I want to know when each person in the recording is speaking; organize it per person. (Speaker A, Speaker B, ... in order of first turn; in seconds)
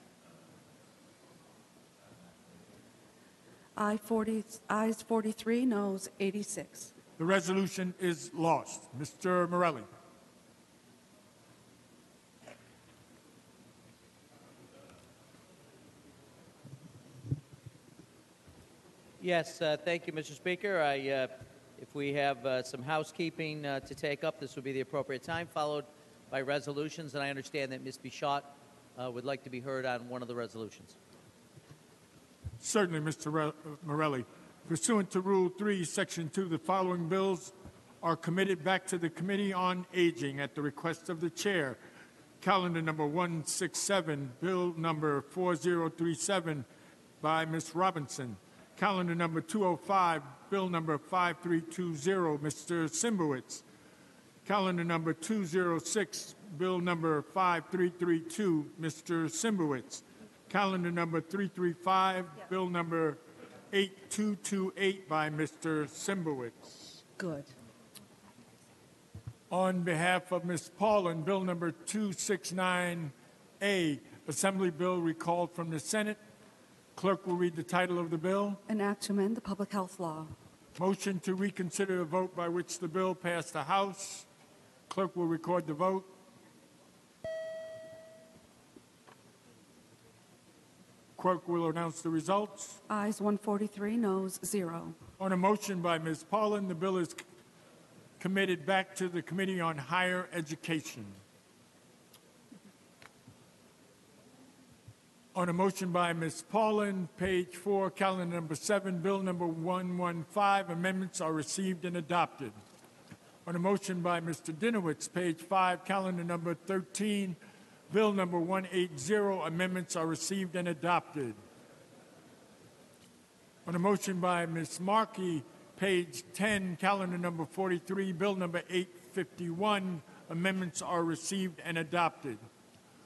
Speaker A: 3.8-6.9, 67.2-67.5, 78.7-80.3, 92.9-95.0
Speaker B: 7.2-9.8, 32.6-41.8, 42.4-46.6, 47.2-53.6, 54.4-63.2, 63.7-66.7, 69.5-76.2, 76.9-78.6, 80.8-84.3, 84.9-86.1, 91.2-92.8, 95.2-97.2, 98.2-101.2, 105.3-112.5, 113.4-117.4, 117.9-121.3, 123.7-132.4
Speaker C: 19.2-31.0